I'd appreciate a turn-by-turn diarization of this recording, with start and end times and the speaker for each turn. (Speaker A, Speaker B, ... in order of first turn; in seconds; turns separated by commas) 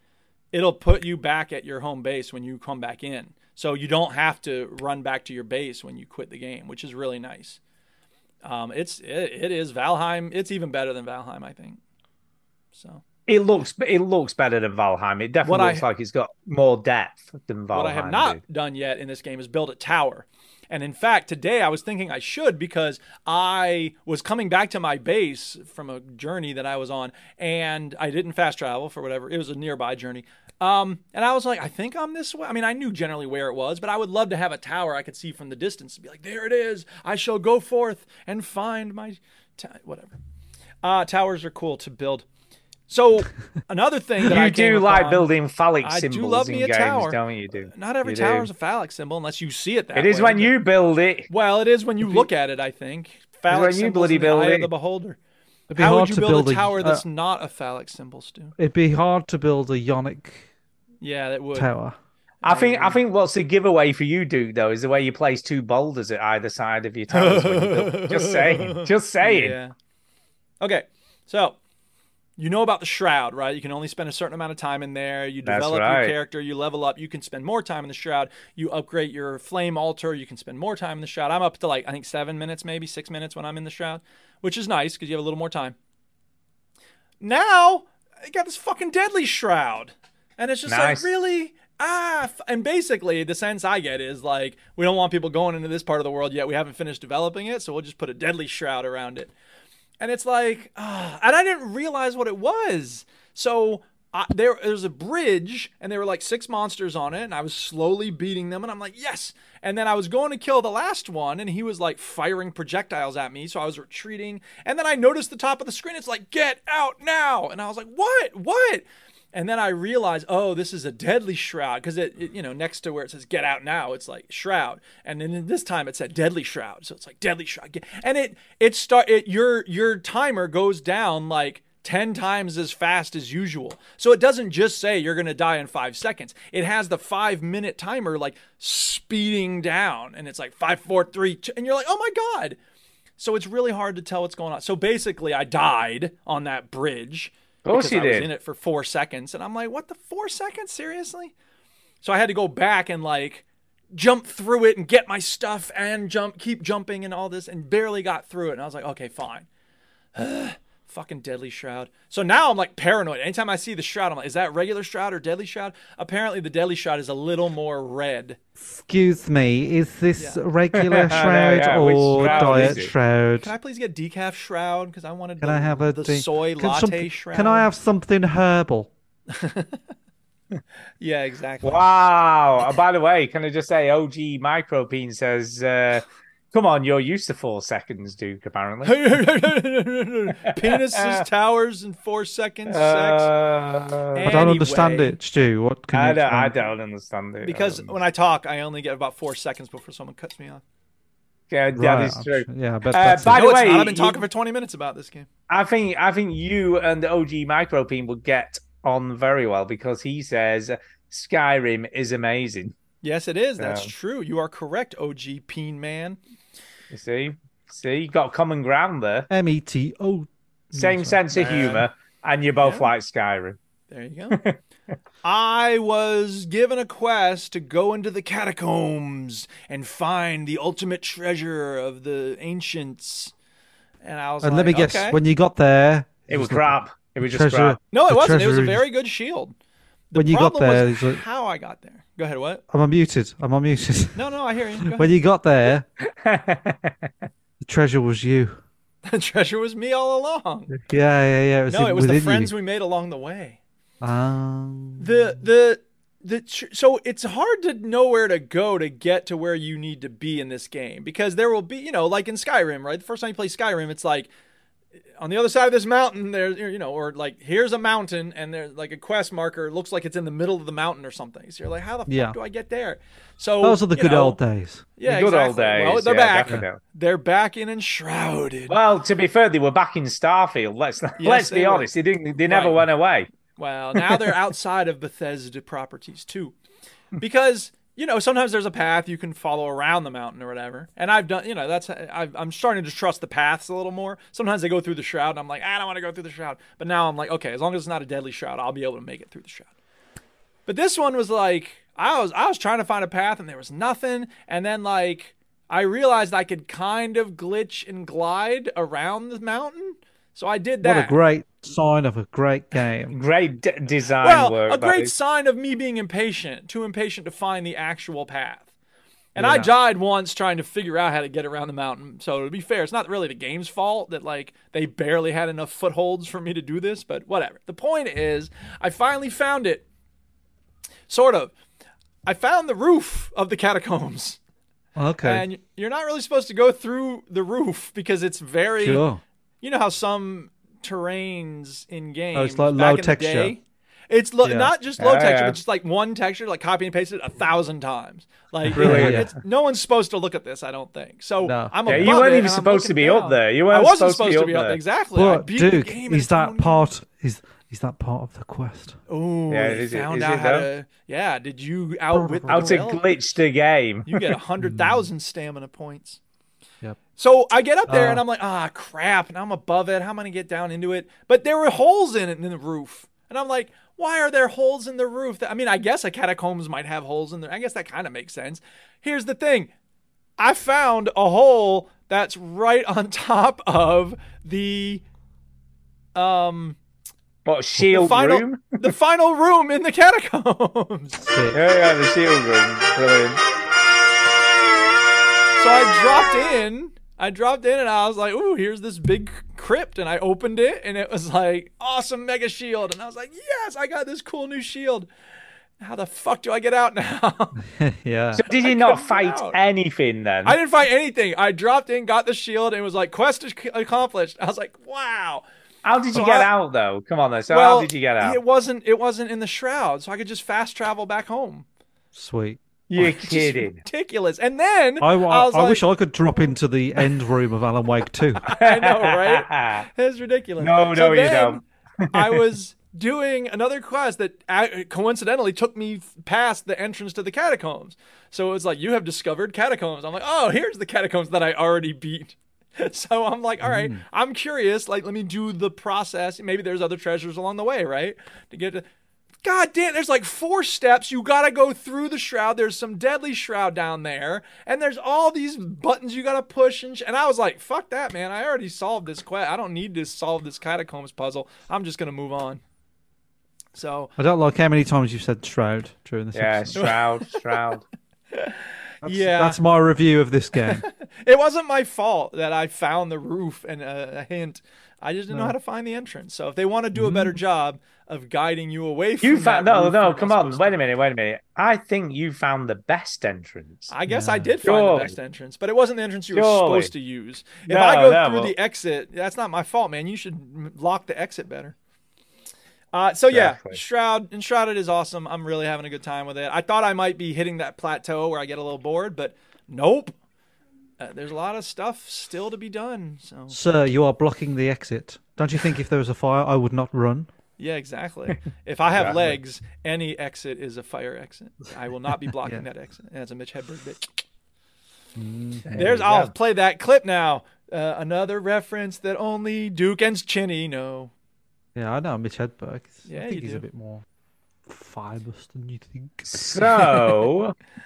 Speaker A: 0.5-7.6, Speaker A: 8.4-11.8, Speaker A: 12.7-13.0, Speaker B: 13.3-18.4, Speaker A: 15.4-15.8, Speaker A: 17.7-40.2, Speaker A: 40.8-42.2, Speaker A: 42.9-45.3, Speaker B: 44.2-48.5, Speaker A: 45.8-47.2, Speaker A: 47.7-50.5, Speaker B: 49.9-51.3, Speaker A: 51.3-55.2, Speaker B: 53.5-54.7, Speaker C: 55.7-57.0, Speaker A: 55.8-58.5, Speaker C: 58.6-60.5, Speaker A: 61.0-61.7, Speaker C: 61.5-62.0, Speaker A: 62.4-63.0, Speaker B: 62.4-69.6, Speaker A: 67.1-69.7, Speaker A: 70.6-71.5, Speaker A: 72.4-85.7, Speaker B: 75.4-76.2, Speaker A: 87.2-99.3, Speaker B: 90.7-91.1, Speaker A: 100.0-142.6, Speaker A: 143.2-151.3, Speaker B: 147.6-148.3, Speaker A: 152.0-159.5, Speaker A: 160.1-168.4, Speaker C: 168.6-173.5, Speaker A: 170.2-170.4, Speaker B: 170.7-172.9, Speaker A: 172.2-172.8, Speaker A: 173.4-177.7, Speaker C: 175.4-178.9, Speaker A: 179.3-179.8, Speaker A: 181.0-181.8, Speaker B: 181.6-189.2, Speaker A: 188.8-193.3, Speaker B: 190.4-191.2, Speaker B: 192.7-194.3, Speaker A: 194.1-195.2, Speaker C: 194.2-196.6, Speaker B: 195.9-197.9, Speaker A: 197.4-200.6, Speaker B: 201.5-204.2, Speaker C: 201.8-203.4, Speaker A: 203.3-205.3, Speaker B: 205.5-212.7, Speaker A: 213.0-216.2, Speaker B: 213.6-213.9, Speaker B: 216.9-219.3, Speaker C: 219.3-221.2, Speaker B: 220.8-223.6, Speaker A: 221.3-221.9, Speaker A: 222.6-222.9, Speaker A: 223.9-224.4, Speaker B: 224.3-224.6, Speaker A: 225.2-233.3, Speaker A: 234.0-235.2, Speaker C: 234.4-238.8, Speaker B: 236.3-237.8, Speaker A: 237.9-239.5, Speaker A: 240.1-242.6, Speaker C: 240.1-241.2, Speaker C: 242.7-244.2, Speaker A: 244.1-245.2, Speaker C: 244.8-245.8, Speaker B: 246.0-247.1, Speaker C: 247.6-248.6, Speaker A: 249.0-250.7, Speaker C: 250.9-252.5, Speaker A: 251.7-253.6, Speaker C: 254.0-255.3, Speaker A: 255.0-264.3, Speaker A: 265.2-274.4, Speaker C: 272.1-272.4, Speaker C: 273.6-274.9, Speaker A: 275.0-278.8, Speaker B: 275.0-276.8, Speaker B: 278.7-283.3, Speaker A: 281.2-281.9, Speaker A: 282.4-282.9, Speaker A: 283.6-286.6, Speaker B: 284.0-284.2, Speaker A: 287.2-299.7, Speaker A: 300.7-311.1, Speaker C: 310.8-313.1, Speaker B: 313.1-315.1, Speaker A: 314.2-318.7, Speaker C: 319.4-319.7, Speaker A: 319.4-329.8, Speaker A: 331.1-331.5, Speaker A: 332.2-334.4, Speaker C: 334.9-335.4, Speaker A: 335.2-339.1, Speaker C: 338.8-339.2, Speaker A: 339.6-343.6, Speaker C: 342.3-343.6, Speaker A: 344.1-356.9, Speaker C: 344.4-344.7, Speaker B: 345.0-345.6, Speaker C: 348.7-349.3, Speaker B: 348.7-349.2, Speaker C: 351.4-352.2, Speaker B: 351.9-354.8, Speaker C: 355.1-359.0, Speaker A: 359.1-363.0, Speaker B: 359.5-360.7, Speaker C: 362.1-362.8, Speaker B: 362.5-364.3, Speaker A: 364.1-366.2, Speaker C: 364.6-365.1, Speaker A: 367.2-379.7, Speaker C: 367.9-368.2, Speaker A: 380.4-385.0, Speaker A: 386.1-386.8, Speaker B: 387.4-388.8, Speaker A: 387.8-391.2, Speaker C: 391.2-391.6, Speaker B: 391.5-393.4, Speaker A: 395.6-405.1, Speaker A: 405.8-407.6, Speaker C: 407.6-408.4, Speaker B: 408.3-410.6, Speaker A: 408.6-409.6, Speaker A: 410.4-415.4, Speaker B: 415.8-418.4, Speaker A: 416.1-416.5, Speaker A: 417.5-421.6, Speaker C: 422.1-423.1, Speaker B: 422.9-423.8, Speaker A: 423.0-425.8, Speaker C: 425.0-428.4, Speaker A: 428.4-448.8, Speaker B: 428.5-429.9, Speaker B: 430.6-432.4, Speaker C: 443.6-444.0, Speaker A: 449.4-462.6, Speaker A: 463.8-464.1, Speaker C: 464.2-466.8, Speaker B: 466.3-467.8, Speaker A: 466.7-467.1, Speaker A: 468.3-469.6, Speaker C: 469.0-470.8, Speaker A: 470.6-480.8, Speaker C: 476.9-477.4, Speaker B: 479.2-483.9, Speaker A: 483.9-491.7, Speaker C: 484.1-484.5, Speaker B: 484.6-485.1, Speaker B: 486.3-486.9, Speaker B: 487.6-488.5, Speaker A: 492.9-500.1, Speaker B: 493.3-493.8, Speaker A: 501.0-503.6, Speaker C: 503.5-507.3, Speaker A: 507.6-514.1, Speaker B: 508.9-509.4, Speaker C: 515.1-515.8, Speaker B: 515.7-516.3, Speaker A: 515.7-521.1, Speaker C: 521.7-524.0, Speaker A: 523.0-523.6, Speaker C: 524.7-527.2, Speaker B: 526.3-527.5